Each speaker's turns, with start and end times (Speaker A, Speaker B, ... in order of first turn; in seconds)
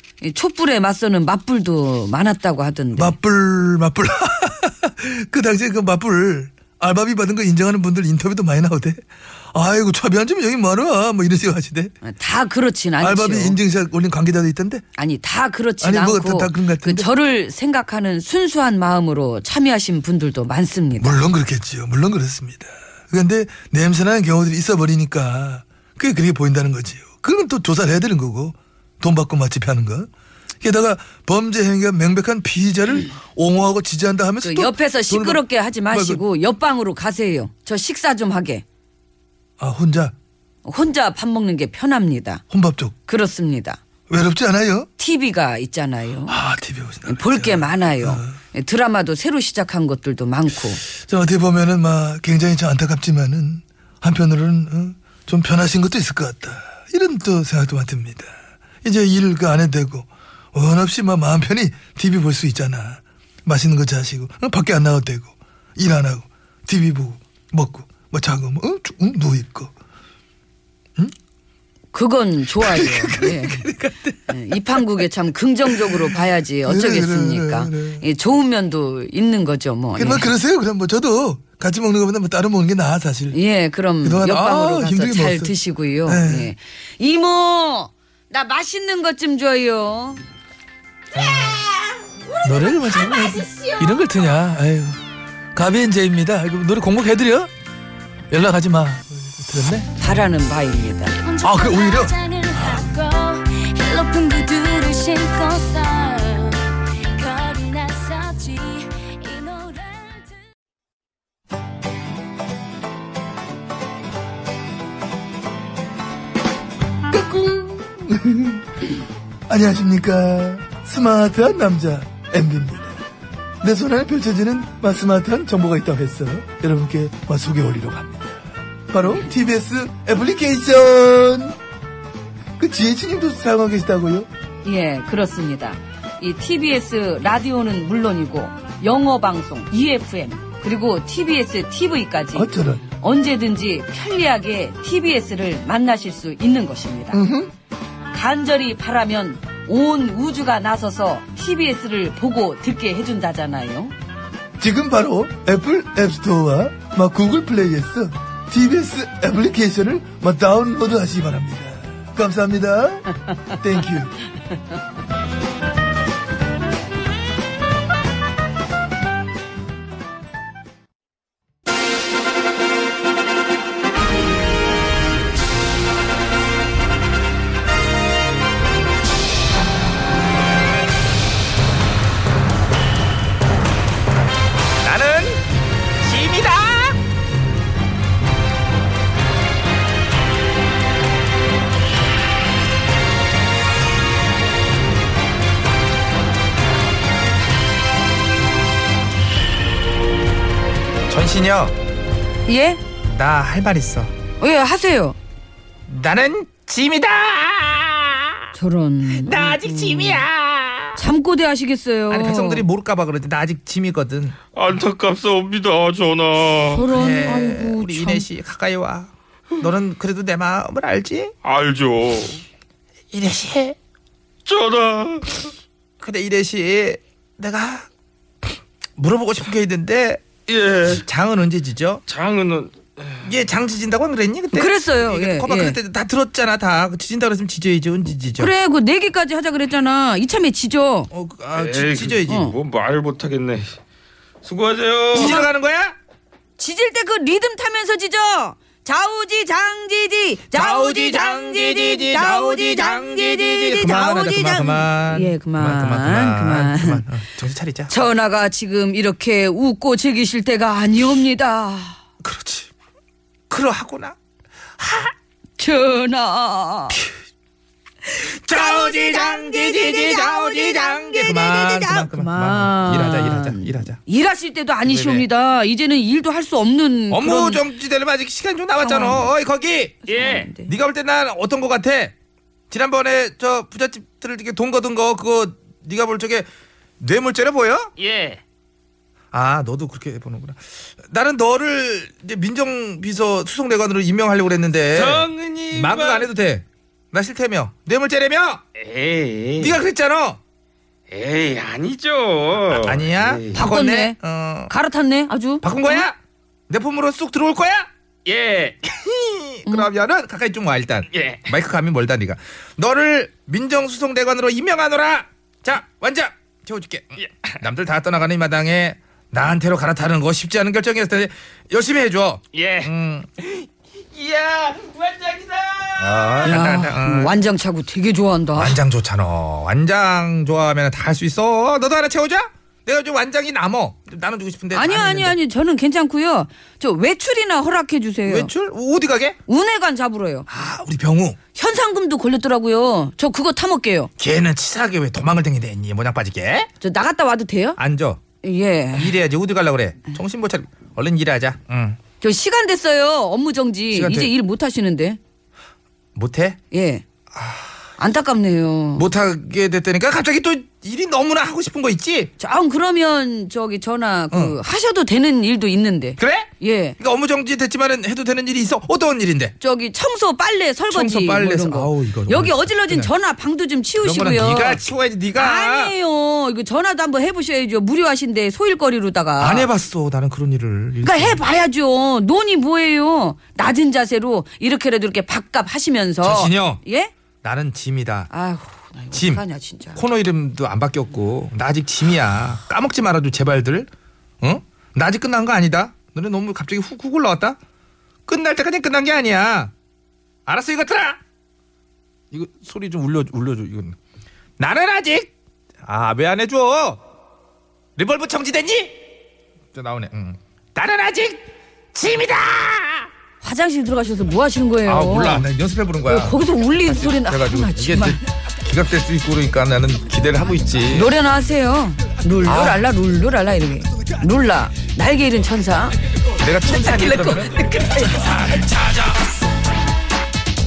Speaker A: 0.2-3.2, 12.0-13.6, 14.9-21.2, 34.4-38.6, 40.6-42.4, 43.1-43.8, 45.0-46.4, 47.0-50.8, 71.9-73.7, 74.3-80.3, 83.3-90.2, 92.7-93.7, 100.0-101.2, 134.6-147.2, 148.1-153.9, 202.4-202.8, 204.4-205.2, 208.5-210.2, 210.9-212.7, 216.5-218.3, 234.5-235.8, 238.3-241.1, 242.2-242.5, 245.1-245.5, 246.6-257.0, 257.9-262.0, 265.6-267.0, 268.5-277.6, 278.8-279.3, 280.1-280.7, 303.5-304.1, 304.7-306.1, 326.4-328.8, 334.7-338.5, 339.5-340.5, 341.5-344.1, 346.8-347.8, 348.4-349.2, 352.2-355.2, 356.7-357.0, 358.0-359.1, 362.4-367.0, 369.6-379.7, 381.0-387.1, 388.3-390.0, 413.4-415.4, 416.1-418.3, 420.9-425.9, 426.6-428.4
Speaker B: 2.9-11.9, 13.0-14.8, 15.8-17.1, 21.0-30.1, 30.6-36.2, 39.6-40.1, 42.5-42.9, 44.1-44.9, 46.3-48.4, 51.0-69.7, 72.6-74.8, 75.7-78.0, 80.0-83.4, 84.0-85.5, 86.0-86.5, 91.1-91.7, 92.4-95.0, 95.5-97.5, 98.3-100.0, 101.4-102.9, 117.1-118.7, 119.5-123.0, 123.6-131.6, 132.6-134.3, 142.3-142.8, 147.1-147.5, 154.6-164.2
Speaker C: 101.1-110.5
Speaker D: 184.8-185.4, 186.0-187.0, 201.1-201.7, 203.0-204.1, 205.9-208.4, 209.0-211.0, 212.1-214.4, 216.8-221.3, 223.1-223.8, 226.0-227.9, 229.0-232.0, 233.2-238.5, 241.1-242.5, 245.1-245.9, 250.5-257.9, 262.2-262.7, 263.5-264.1, 264.8-265.1, 268.1-274.0, 274.8-275.2, 277.1-282.1, 282.7-286.5, 287.0-287.9, 289.3-298.6, 299.4-300.4, 302.6-304.7, 305.6-306.1, 306.7-307.9, 308.8-327.3, 328.6-335.4, 338.2-339.4, 340.5-341.4, 344.2-346.7, 347.8-348.2, 348.9-352.0, 353.9-354.3, 356.1-356.6, 357.3-357.7, 358.9-362.3, 364.3-364.6, 366.2-369.5, 370.9-373.1, 374.0-375.9, 379.4-381.4, 386.2-386.8, 387.4-388.3, 389.1-389.4, 389.9-393.9, 394.4-397.6, 398.3-399.7, 400.4-401.2, 402.3-403.9, 404.6-405.3, 405.8-407.0, 407.9-409.0, 409.7-413.1, 414.8-421.1, 422.4-422.8, 426.4-429.1
Speaker E: 224.5-225.0, 232.1-232.6, 288.0-288.4, 295.2-296.2, 298.8-299.6, 301.1-302.7, 308.3-308.8